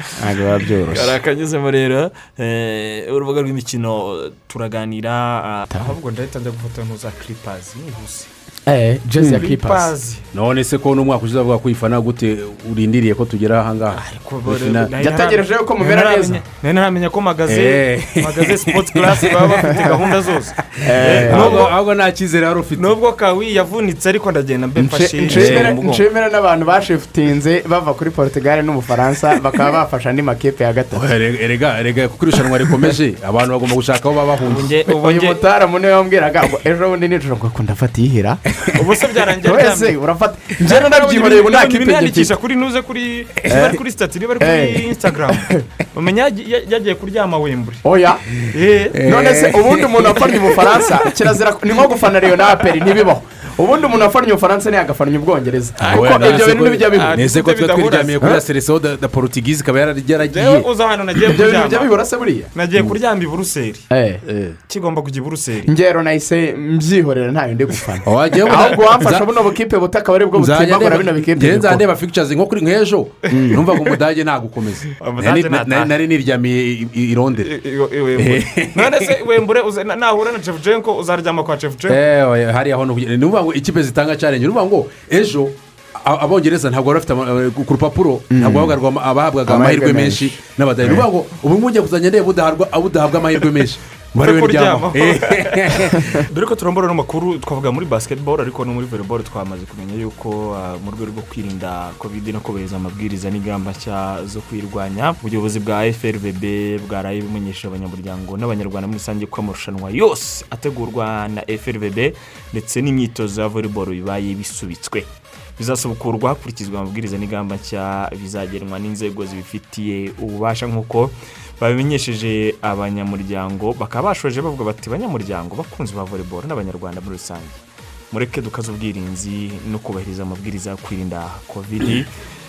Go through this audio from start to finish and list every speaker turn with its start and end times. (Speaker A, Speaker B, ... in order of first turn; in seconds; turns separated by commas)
Speaker A: 0.2-1.1, Speaker B: 0.9-8.3, Speaker A: 8.7-9.9, Speaker C: 9.2-9.5, Speaker B: 9.2-10.3, Speaker C: 10.3-14.9, Speaker B: 13.9-21.7, Speaker A: 15.0-16.4, Speaker C: 17.5-20.1, Speaker C: 20.7-22.9, Speaker A: 20.8-21.7, Speaker B: 22.8-26.1, Speaker A: 24.8-31.1, Speaker C: 25.3-25.8, Speaker C: 30.9-34.8, Speaker B: 34.4-35.4, Speaker A: 34.9-38.8, Speaker B: 38.7-40.0, Speaker A: 39.4-42.4, Speaker B: 40.6-47.8, Speaker A: 43.5-43.8, Speaker A: 44.4-45.6, Speaker A: 47.8-48.3, Speaker B: 48.4-49.0, Speaker C: 48.9-51.0, Speaker A: 49.0-57.2, Speaker C: 55.8-60.7, Speaker B: 56.9-58.2, Speaker B: 60.3-62.0, Speaker A: 61.3-62.5, Speaker B: 62.5-63.9, Speaker A: 63.9-64.2, Speaker C: 64.3-64.6, Speaker B: 64.7-65.7, Speaker A: 65.7-71.9, Speaker C: 68.0-69.2, Speaker B: 68.5-69.2, Speaker C: 70.4-77.5, Speaker A: 73.3-73.6, Speaker B: 75.0-75.9, Speaker B: 77.4-82.0, Speaker C: 78.2-79.1, Speaker C: 81.9-96.0, Speaker A: 88.3-88.8, Speaker A: 89.5-91.0, Speaker B: 94.2-127.6, Speaker B: 128.1-132.1